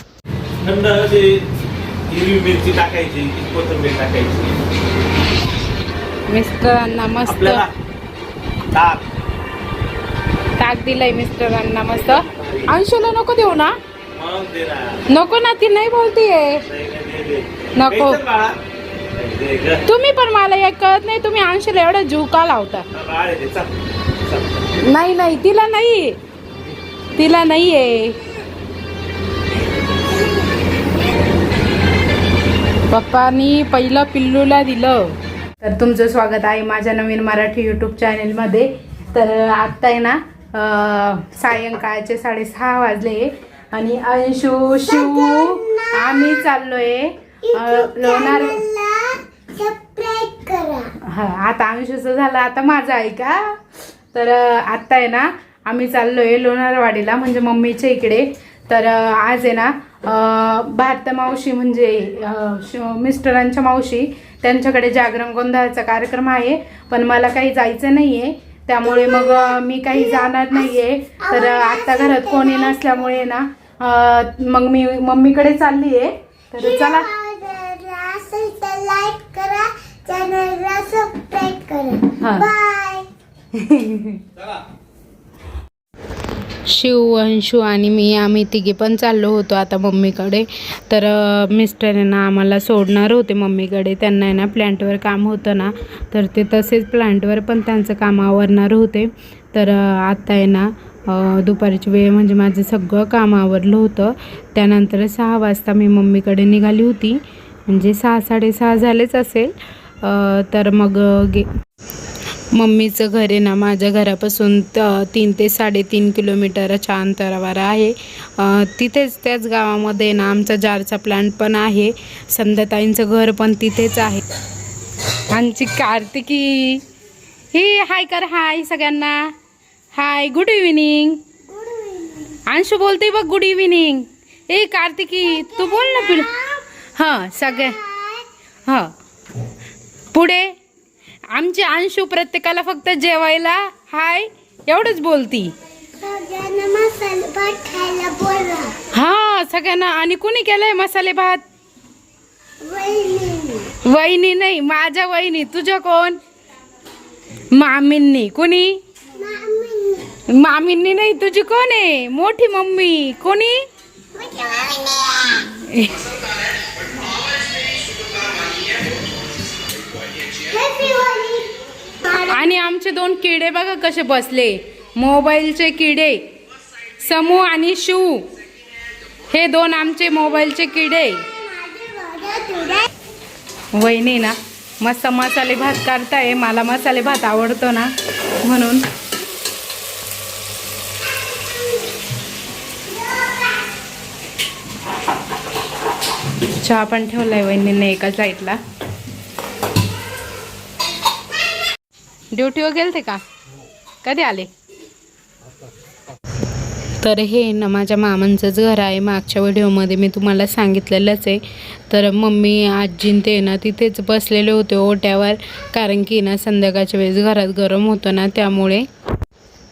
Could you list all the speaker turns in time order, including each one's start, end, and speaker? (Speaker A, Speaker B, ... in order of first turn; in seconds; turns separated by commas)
Speaker A: 0.6-1.4, Speaker A: 2.1-4.5, Speaker B: 6.3-7.7, Speaker A: 7.3-7.7, Speaker A: 8.7-9.0, Speaker B: 10.6-13.8, Speaker A: 12.1-12.7, Speaker A: 14.2-15.0, Speaker B: 15.1-16.6, Speaker A: 16.7-18.6, Speaker B: 17.8-18.2, Speaker A: 19.2-19.8, Speaker B: 19.9-22.9, Speaker A: 22.9-23.7, Speaker A: 24.2-24.7, Speaker B: 24.8-26.2, Speaker B: 27.2-28.2, Speaker B: 32.9-48.6, Speaker C: 44.9-46.3, Speaker C: 47.5-50.9, Speaker B: 51.1-53.5, Speaker B: 54.1-77.1, Speaker C: 68.9-70.7, Speaker C: 71.2-73.0, Speaker C: 76.6-83.1, Speaker B: 82.2-82.5, Speaker B: 83.5-84.2, Speaker B: 86.7-111.5, Speaker B: 112.5-124.2, Speaker B: 125.3-126.8, Speaker B: 127.5-129.2, Speaker B: 129.9-131.2, Speaker C: 131.4-132.4, Speaker B: 132.5-136.4, Speaker C: 135.3-136.6, Speaker B: 136.9-137.8, Speaker C: 137.8-138.3, Speaker B: 138.7-138.9, Speaker B: 140.1-140.5, Speaker B: 141.3-145.5, Speaker C: 146.0-148.8, Speaker B: 148.9-151.4, Speaker C: 152.6-153.7, Speaker B: 153.8-156.2, Speaker B: 157.5-158.8, Speaker C: 159.2-160.1, Speaker B: 160.3-163.6, Speaker C: 164.2-165.4, Speaker B: 165.4-166.1, Speaker C: 170.3-172.3, Speaker B: 172.2-176.3, Speaker B: 177.0-178.3, Speaker B: 179.3-181.3, Speaker C: 181.4-182.9, Speaker B: 183.7-187.9, Speaker B: 188.4-188.8, Speaker B: 196.5-198.6, Speaker B: 202.3-203.2, Speaker B: 204.0-204.5, Speaker B: 207.0-218.9